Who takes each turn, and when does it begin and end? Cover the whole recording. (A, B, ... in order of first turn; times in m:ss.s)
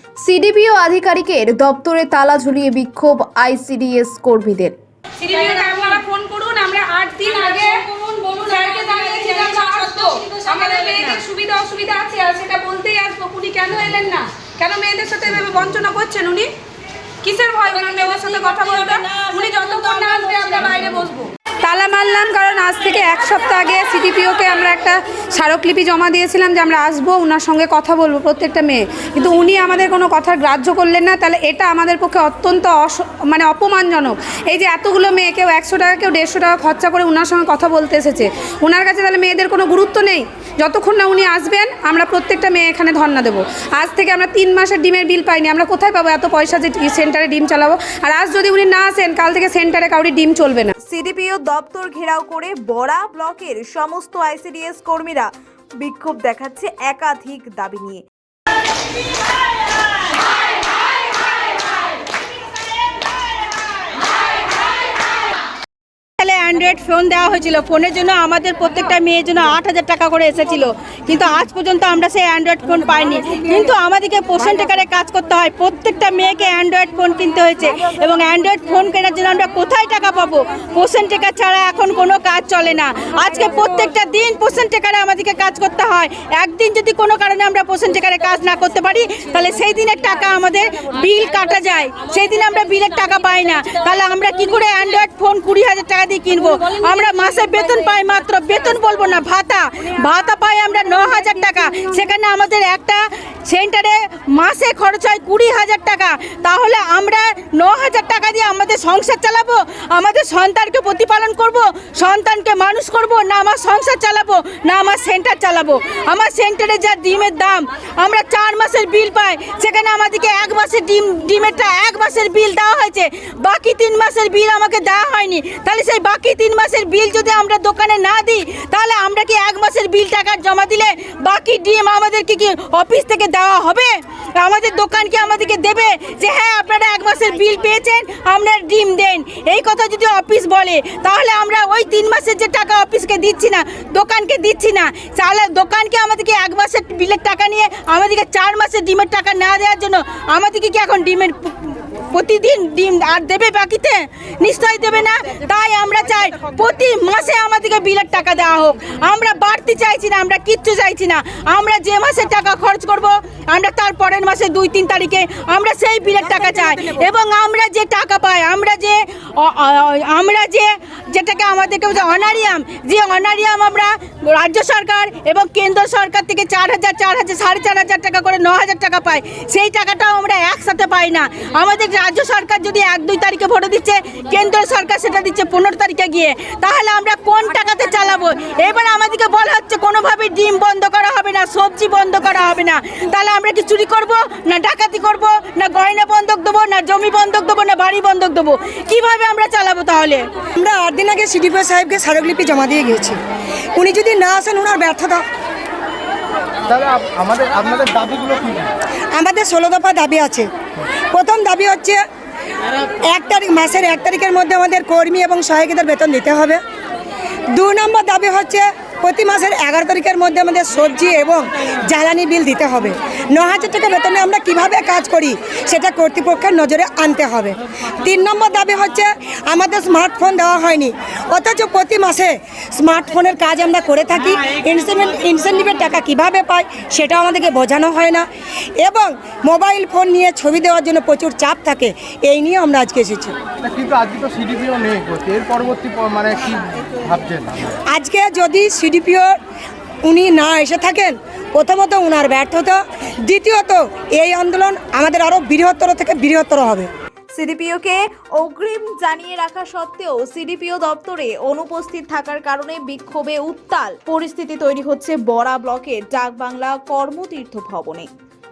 0:00.2-0:04.8 A
0:05.2-0:16.5 B
0:17.2-0:50.7 B
0:18.1-0:20.6 C
0:50.8-0:58.0 D
1:06.2-3:20.3 C
3:20.6-3:23.2 E
3:23.8-3:25.2 E
3:26.7-3:28.7 F
3:29.1-3:30.5 E
3:31.1-3:32.0 E
3:32.9-3:36.6 E
3:37.5-3:58.2 E
3:58.8-4:03.3 E
4:03.6-4:07.7 F
4:07.9-4:09.3 E
4:10.0-4:16.9 E
4:17.3-4:28.1 D